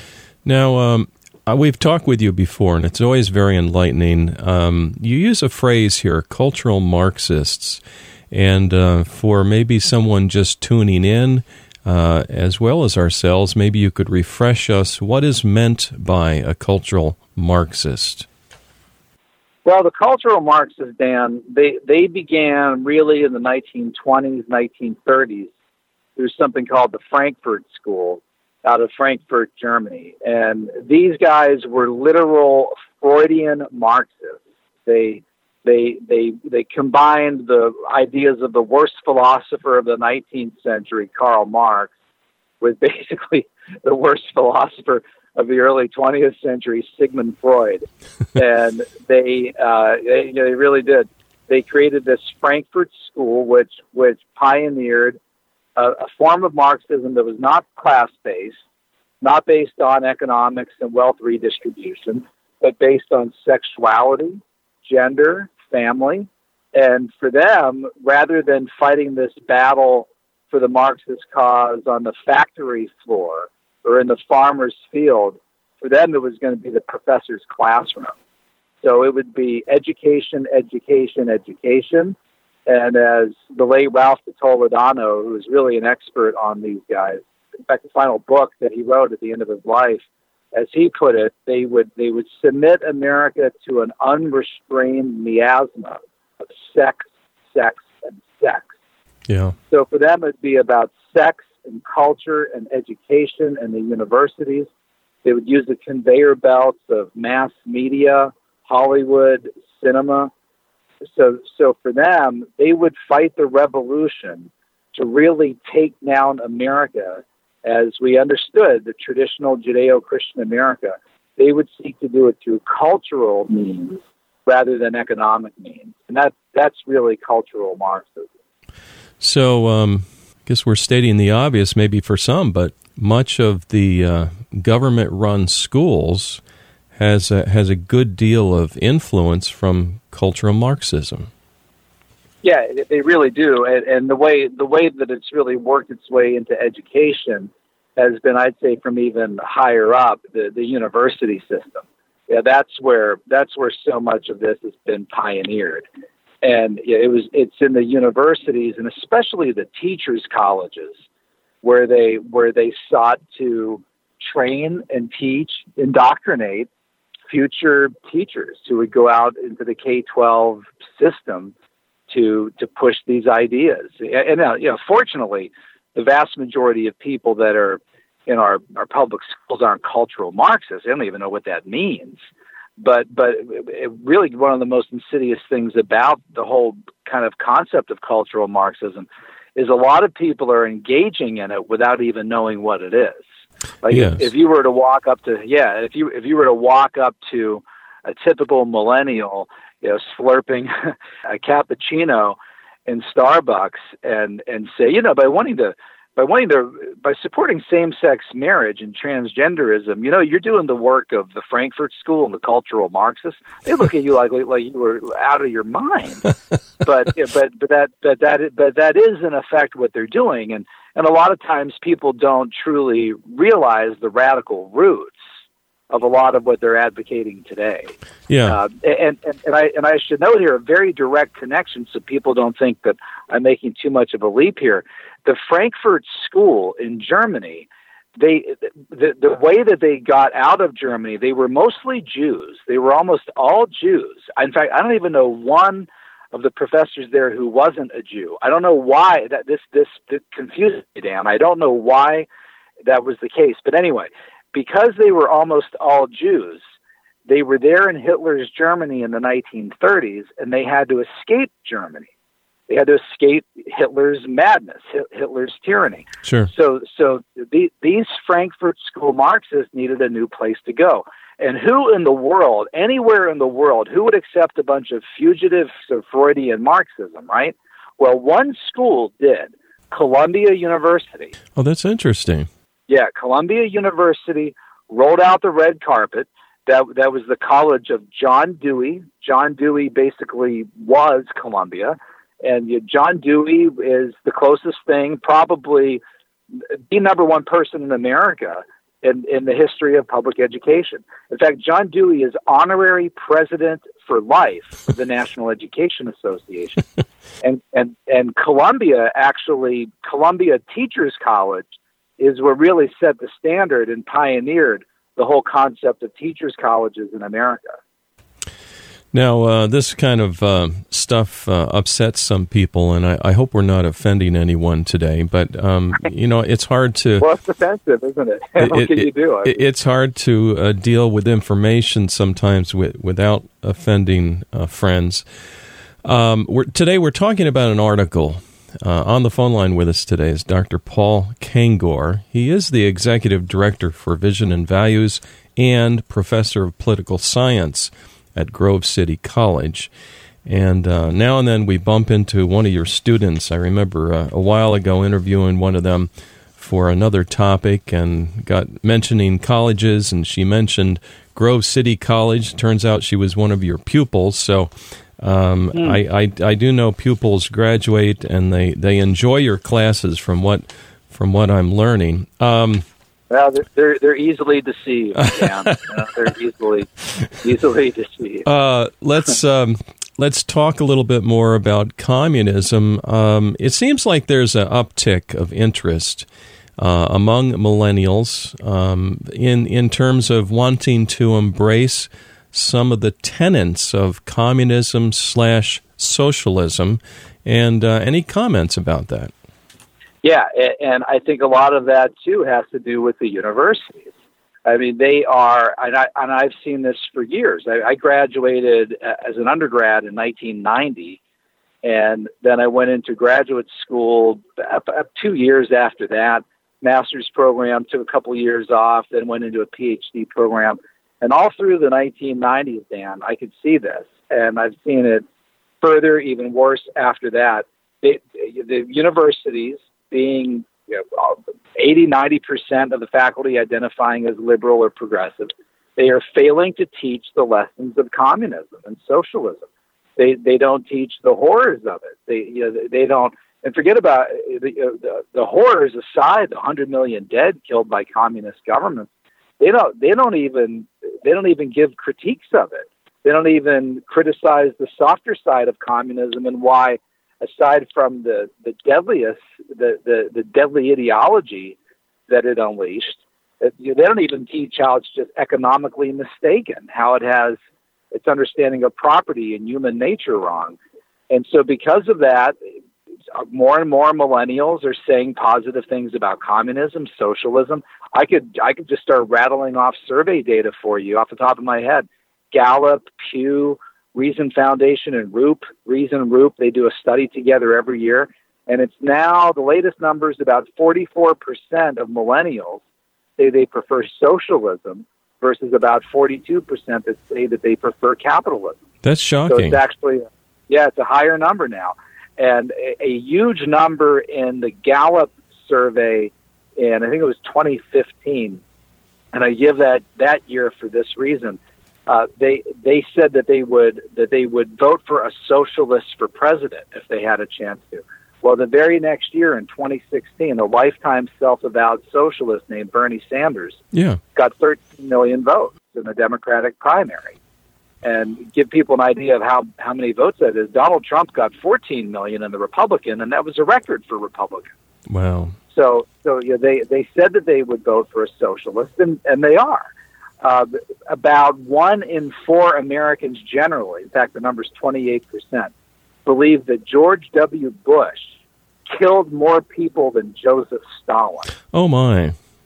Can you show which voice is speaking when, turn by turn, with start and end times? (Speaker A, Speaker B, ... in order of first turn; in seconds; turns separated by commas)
Speaker A: 0.5-18.3, Speaker B: 19.6-25.5, Speaker B: 26.2-41.9, Speaker B: 42.6-55.2, Speaker B: 55.8-58.6, Speaker B: 59.2-78.1, Speaker B: 78.8-82.2, Speaker B: 82.7-98.7, Speaker A: 99.3-99.5, Speaker B: 99.7-104.7, Speaker B: 105.2-110.3, Speaker B: 111.2-128.3, Speaker A: 129.2-136.4, Speaker A: 136.9-141.3, Speaker B: 142.4-155.9, Speaker B: 156.4-160.9, Speaker B: 161.6-166.7, Speaker B: 167.3-171.5, Speaker B: 172.1-182.2, Speaker B: 182.8-193.2, Speaker B: 193.8-216.3, Speaker A: 193.9-194.2, Speaker B: 216.8-225.2, Speaker B: 225.9-227.9, Speaker A: 228.3-228.6, Speaker B: 228.5-252.3, Speaker B: 252.9-256.6, Speaker B: 257.3-262.1, Speaker B: 262.7-281.3, Speaker A: 266.2-266.5, Speaker A: 281.6-282.5, Speaker B: 282.9-296.0, Speaker B: 296.9-306.8, Speaker B: 307.4-317.8, Speaker A: 319.1-327.2, Speaker B: 327.2-329.6, Speaker A: 328.6-335.2, Speaker A: 336.0-349.9, Speaker A: 350.5-372.9, Speaker B: 365.7-366.0, Speaker B: 373.3-378.5, Speaker A: 375.2-375.7, Speaker A: 378.4-386.3, Speaker A: 386.8-399.3, Speaker B: 400.2-404.1, Speaker B: 404.6-411.2, Speaker B: 411.8-425.2, Speaker B: 425.8-439.7, Speaker B: 440.2-461.8, Speaker B: 462.3-467.6, Speaker B: 468.1-470.8, Speaker B: 471.3-472.6, Speaker B: 473.3-492.8, Speaker B: 493.4-498.8, Speaker A: 499.0-499.8, Speaker B: 499.5-508.6, Speaker B: 509.3-523.8, Speaker A: 523.9-524.2, Speaker B: 524.4-527.4, Speaker B: 528.0-534.7, Speaker A: 535.1-535.6, Speaker B: 535.7-539.9, Speaker B: 540.4-545.7, Speaker B: 546.3-548.4, Speaker B: 548.9-551.5, Speaker A: 551.7-552.4